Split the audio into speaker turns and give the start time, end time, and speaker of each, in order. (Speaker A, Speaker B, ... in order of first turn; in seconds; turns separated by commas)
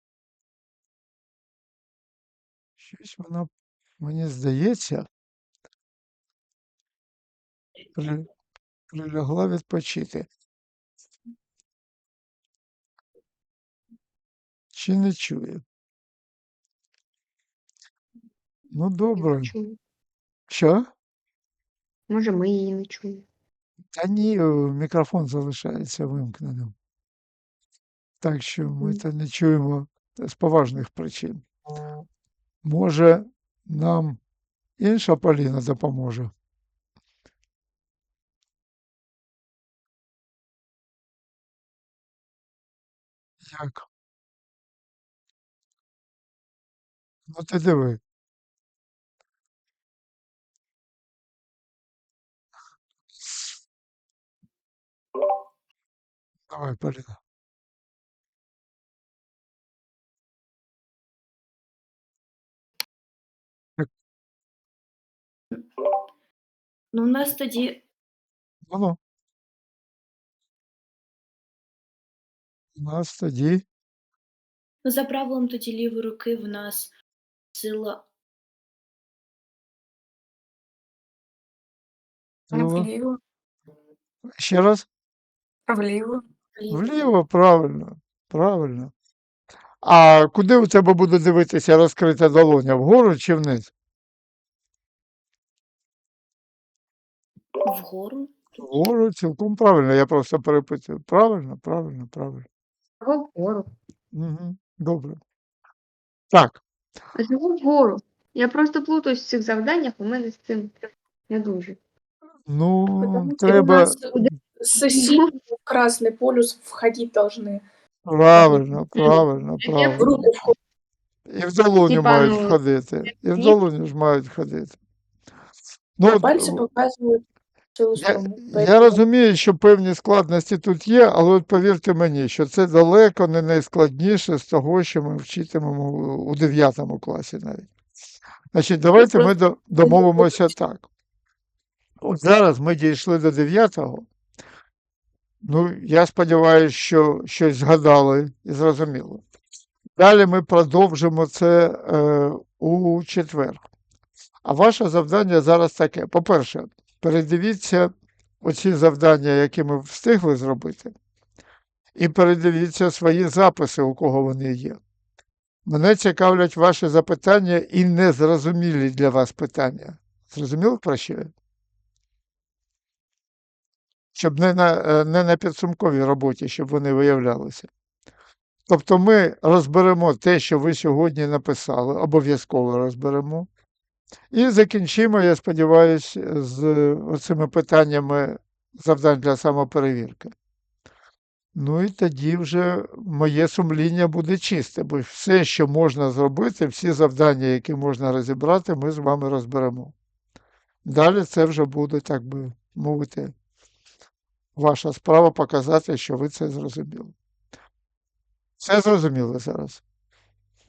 Speaker A: 2.8-5.1, Speaker A: 8.0-8.3, Speaker A: 8.9-10.3, Speaker A: 14.7-15.6, Speaker A: 18.7-19.5, Speaker B: 19.2-19.8, Speaker A: 20.5-20.9, Speaker B: 22.1-23.2, Speaker A: 24.0-26.7, Speaker A: 28.2-31.4, Speaker A: 32.6-34.2, Speaker A: 34.8-36.3, Speaker A: 43.4-43.9, Speaker A: 47.3-48.0, Speaker A: 53.2-53.5, Speaker A: 56.5-57.2, Speaker C: 66.9-67.8, Speaker A: 68.7-69.0, Speaker A: 72.8-73.6, Speaker C: 74.8-76.9, Speaker C: 77.5-78.0, Speaker A: 82.5-82.9, Speaker D: 82.5-83.2, Speaker A: 84.4-84.9, Speaker D: 85.7-86.8, Speaker A: 86.7-88.9, Speaker A: 89.8-93.7, Speaker C: 97.7-98.3, Speaker A: 98.6-102.5, Speaker B: 103.0-103.7, Speaker A: 104.1-105.2, Speaker A: 106.3-106.6, Speaker B: 107.2-110.8, Speaker B: 111.3-111.8, Speaker A: 112.5-114.3, Speaker D: 113.0-117.6, Speaker B: 114.9-115.3, Speaker A: 118.1-120.1, Speaker B: 119.6-120.1, Speaker D: 120.0-120.6, Speaker A: 121.3-124.8, Speaker B: 121.9-122.6, Speaker B: 123.3-123.6, Speaker A: 126.0-126.7, Speaker D: 126.1-127.2, Speaker D: 127.8-129.0, Speaker A: 128.0-137.7, Speaker A: 138.5-140.9, Speaker D: 139.0-140.3, Speaker A: 142.0-144.1, Speaker A: 145.4-149.2, Speaker A: 150.0-153.6, Speaker A: 154.4-157.9, Speaker A: 158.4-160.9, Speaker A: 162.0-164.8, Speaker A: 165.7-171.3, Speaker A: 174.1-177.7, Speaker A: 178.7-183.5, Speaker A: 184.3-190.3, Speaker A: 191.6-199.9, Speaker A: 200.8-203.3, Speaker A: 204.6-207.2, Speaker A: 208.6-209.8